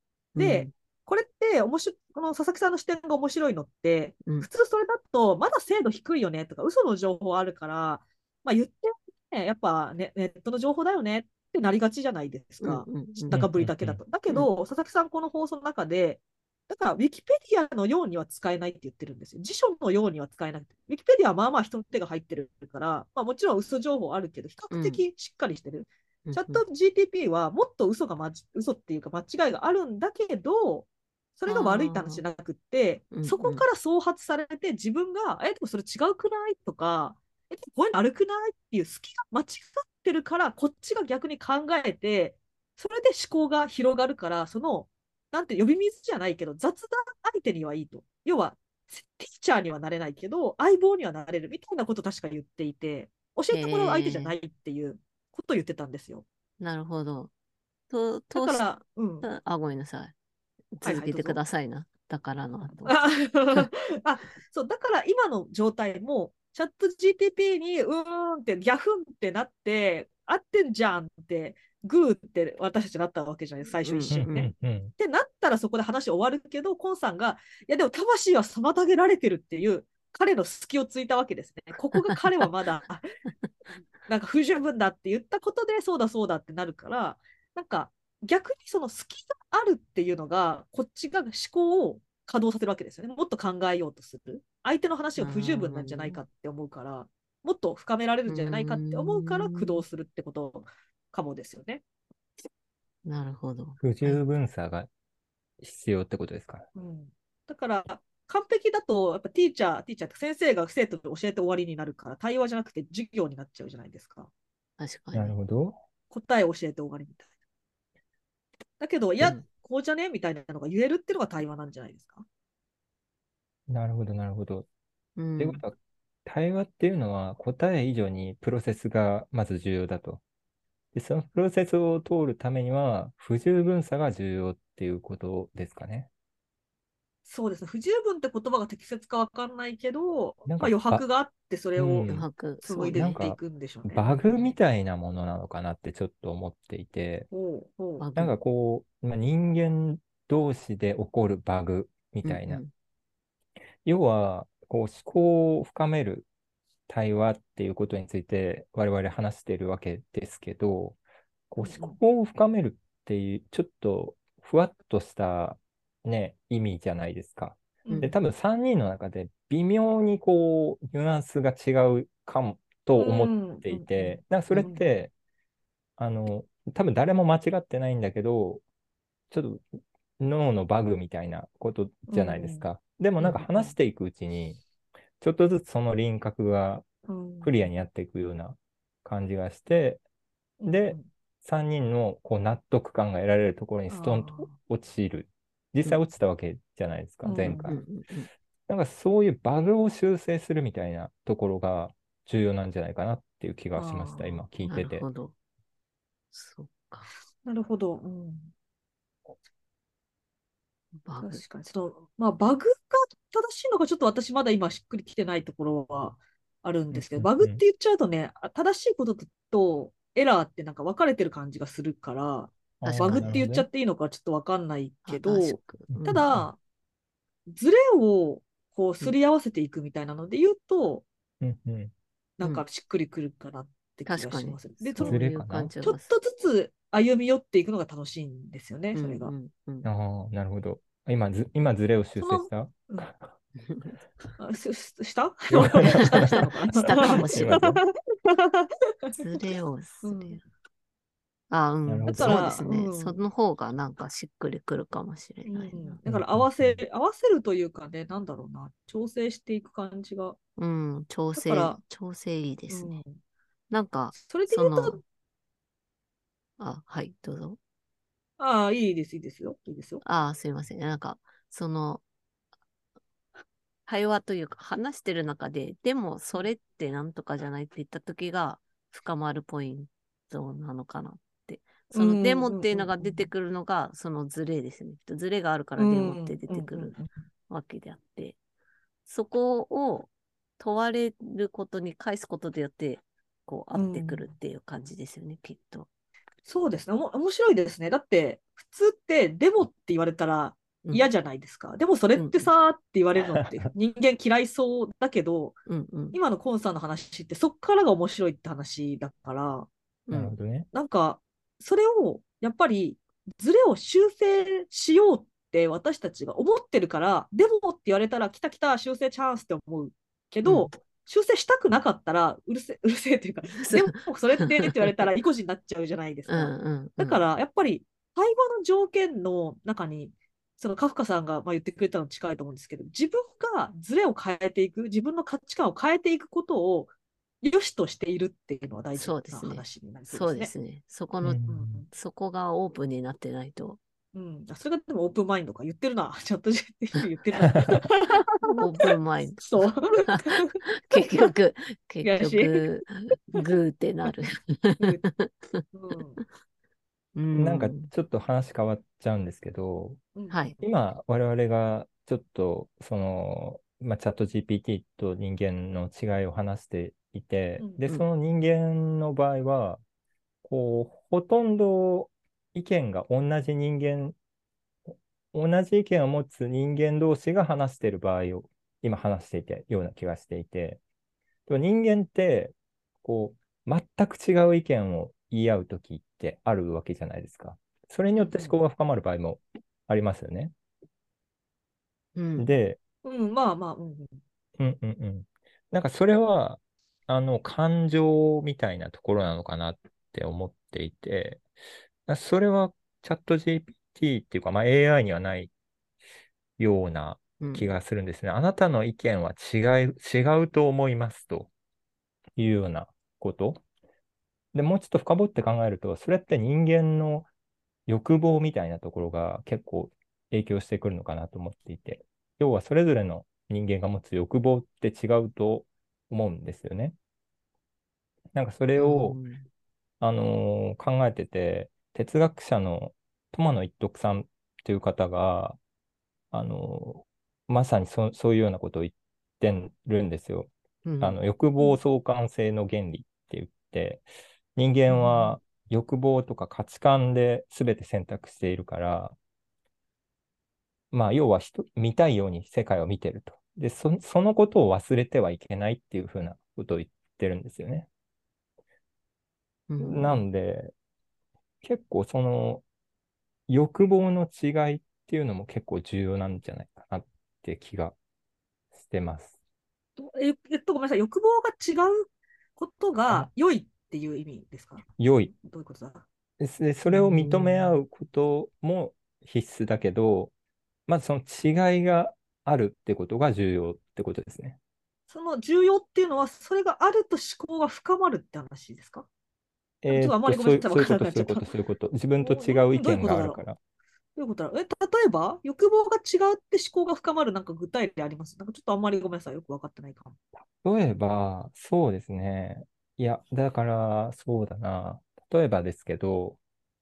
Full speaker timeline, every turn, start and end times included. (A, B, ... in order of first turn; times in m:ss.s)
0:00.3-0:00.7 A
0:00.4-0:56.2 B
0:12.6-0:13.4 A
0:13.3-0:14.0 C
0:24.7-0:25.0 A
0:26.2-0:26.6 A
0:31.5-0:32.2 A
0:33.1-0:33.6 A
0:53.5-0:54.3 A
0:56.6-0:57.3 A
0:57.9-0:58.7 A
0:58.3-0:59.3 B
0:59.2-1:00.1 A
1:00.7-1:03.0 A
1:00.8-1:01.4 B
1:02.8-1:23.1 B
1:13.8-1:14.3 A
1:14.1-1:14.9 C
1:24.0-1:41.8 B
1:35.2-1:36.2 A
1:38.3-1:39.8 A
1:43.0-1:44.2 A
1:43.8-1:44.9 C
1:45.6-1:46.6 C
1:46.7-1:54.3 B
1:54.8-1:55.3 A
1:55.1-1:55.8 C
1:56.1-1:57.3 B
1:58.8-2:02.2 B
2:03.7-2:04.7 C
2:05.2-2:05.6 A
2:05.4-2:10.2 C
2:10.9-2:16.1 C
2:17.2-2:22.1 B
2:20.5-2:21.0 C
2:21.8-2:22.3 C
2:22.1-2:23.2 A
2:22.6-2:24.0 B
2:22.9-2:27.3 C
2:27.3-2:28.1 B
2:28.0-2:28.3 A
2:28.2-2:32.6 C
2:32.2-2:32.7 A
2:33.8-2:36.2 C
2:36.9-2:41.0 C
2:41.5-2:55.1 C
2:41.6-2:42.0 B
2:47.8-2:48.1 B
2:53.0-2:54.8 B
2:56.0-2:58.6 C
2:59.3-2:59.6 C
3:00.2-3:04.6 C
3:02.1-3:02.6 B
3:03.3-3:03.7 B
3:05.2-3:06.9 C
3:07.1-3:07.7 B
3:07.4-3:10.0 C
3:10.6-3:11.0 B
3:10.7-3:17.8 C
3:13.9-3:14.5 B
3:17.2-3:17.8 B
3:17.6-3:18.3 A
3:18.7-3:25.0 C
3:23.8-3:24.4 B
3:24.6-3:25.3 A
3:26.3-3:27.1 A
3:27.4-3:28.5 B
3:31.0-3:31.4 A
3:31.2-3:46.6 B
3:36.9-3:37.6 C
3:42.8-3:43.7 C
3:42.9-3:43.4 A
3:45.0-3:46.3 A
3:45.9-3:46.5 C
3:47.5-3:51.0 B
3:51.4-3:51.9 C
3:52.4-3:55.2 B
3:54.0-3:56.1 A
3:55.0-3:55.7 C
3:55.8-3:59.3 B
3:58.9-3:59.9 A
3:59.8-4:03.2 C
4:02.2-4:03.1 B
4:03.6-4:04.0 A
4:04.4-4:09.5 B
4:05.5-4:07.8 C
4:05.8-4:06.2 A
4:06.8-4:07.8 A
4:09.1-4:10.4 A
4:10.0-4:10.4 B
4:11.5-4:16.0 A
4:11.9-4:12.6 C
4:12.1-4:13.2 B
4:15.4-4:20.4 B
4:16.1-4:16.8 C
4:20.6-4:23.0 A
4:21.3-4:21.8 B
4:22.7-4:23.2 B
4:23.7-4:25.0 A
4:24.2-4:25.0 B
4:26.6-4:27.6 A
4:28.4-4:30.0 B
4:30.0-4:32.0 A
4:33.9-4:46.9 A
4:41.9-4:43.3 B
4:45.8-4:47.1 B
4:47.5-4:48.4 A
4:49.0-4:55.9 A
4:53.7-4:54.3 B
4:56.4-5:05.6 B
5:02.2-5:02.5 A
5:05.7-5:06.2 A
5:06.1-5:09.7 B
5:10.1-5:10.4 A
5:10.1-5:10.7 C
5:10.7-5:40.5 B
5:20.4-5:20.7 A
5:23.6-5:25.0 A
5:26.3-5:27.2 A
5:38.9-5:43.8 A
5:41.2-5:41.8 C
5:41.5-5:41.9 B
5:44.1-5:51.3 B
5:48.4-5:56.0 A
5:52.0-5:52.6 B
5:55.7-5:56.2 B
5:57.2-5:57.9 A
5:57.3-6:00.0 C
6:00.1-6:00.6 B
6:00.3-6:00.5 A
6:00.6-6:09.8 C
6:07.6-6:07.8 B
6:10.4-6:14.2 C
6:15.3-6:20.8 C
6:21.5-6:30.5 C
6:28.2-6:28.6 B
6:32.2-6:32.5 A
6:32.4-6:32.8 C
6:33.0-6:34.2 B
6:34.6-6:41.4 C
6:42.1-6:45.5 C
6:46.6-6:51.5 C
6:47.4-6:47.7 A
6:52.4-6:53.6 C
6:54.5-6:57.3 C
6:57.9-7:07.0 C
7:08.3-7:09.2 C
7:08.8-7:09.5 A
7:10.0-7:15.6 C
7:16.3-7:24.0 C
7:20.8-7:21.2 A
7:24.6-7:29.2 C
7:30.9-7:37.9 C
7:39.7-7:40.2 A
7:39.8-7:40.7 C
7:41.6-7:42.6 C
7:43.5-7:47.9 C
7:48.7-7:49.3 C
7:50.0-7:56.0 B
7:55.0-7:55.3 C
7:56.4-8:00.3 C
7:56.9-7:57.8 A
8:00.9-8:04.6 C
8:05.1-8:09.1 B
8:09.8-8:13.6 C
8:09.9-8:11.4 B
8:12.2-8:13.4 B
8:14.2-8:20.2 B
8:20.6-8:26.4 C